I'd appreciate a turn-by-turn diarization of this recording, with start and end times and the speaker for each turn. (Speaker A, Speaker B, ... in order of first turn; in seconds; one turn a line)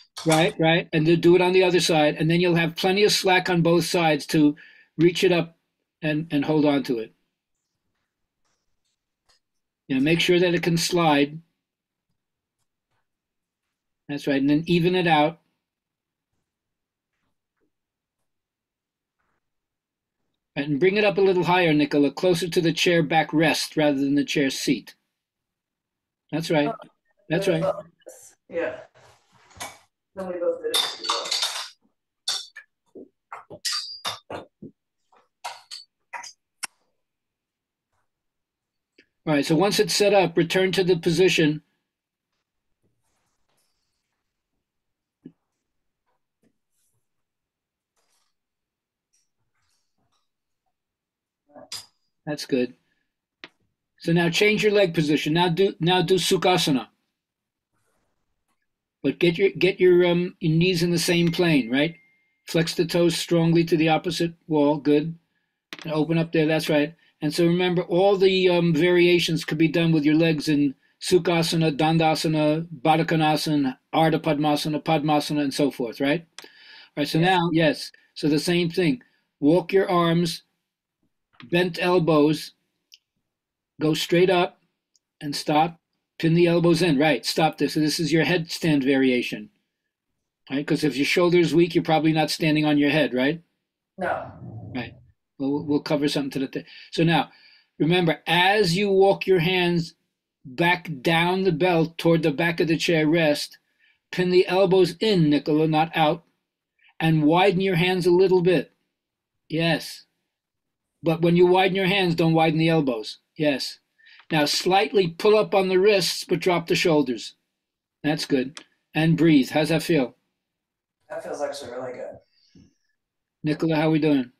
Speaker A: 0.2-7.1
Speaker A: 9.9-11.4
Speaker A: 14.1-15.4
Speaker A: 20.6-24.9
Speaker A: 26.3-26.7
Speaker A: 27.3-27.7
Speaker B: 27.3-27.7
Speaker B: 28.5-28.8
Speaker B: 30.1-31.5
Speaker A: 39.2-41.6
Speaker A: 52.2-52.7
Speaker A: 54.0-56.9
Speaker A: 59.0-65.2
Speaker A: 65.8-76.2
Speaker A: 77.0-80.4
Speaker A: 81.5-82.5
Speaker A: 83.8-84.6
Speaker A: 85.2-89.5
Speaker A: 90.5-93.4
Speaker B: 94.0-94.3
Speaker A: 94.7-99.9
Speaker A: 100.5-103.6
Speaker A: 104.1-106.2
Speaker A: 107.0-108.7
Speaker A: 109.5-110.0
Speaker A: 111.0-113.8
Speaker A: 114.3-117.3
Speaker A: 118.0-120.1
Speaker B: 121.1-122.2
Speaker A: 123.4-124.3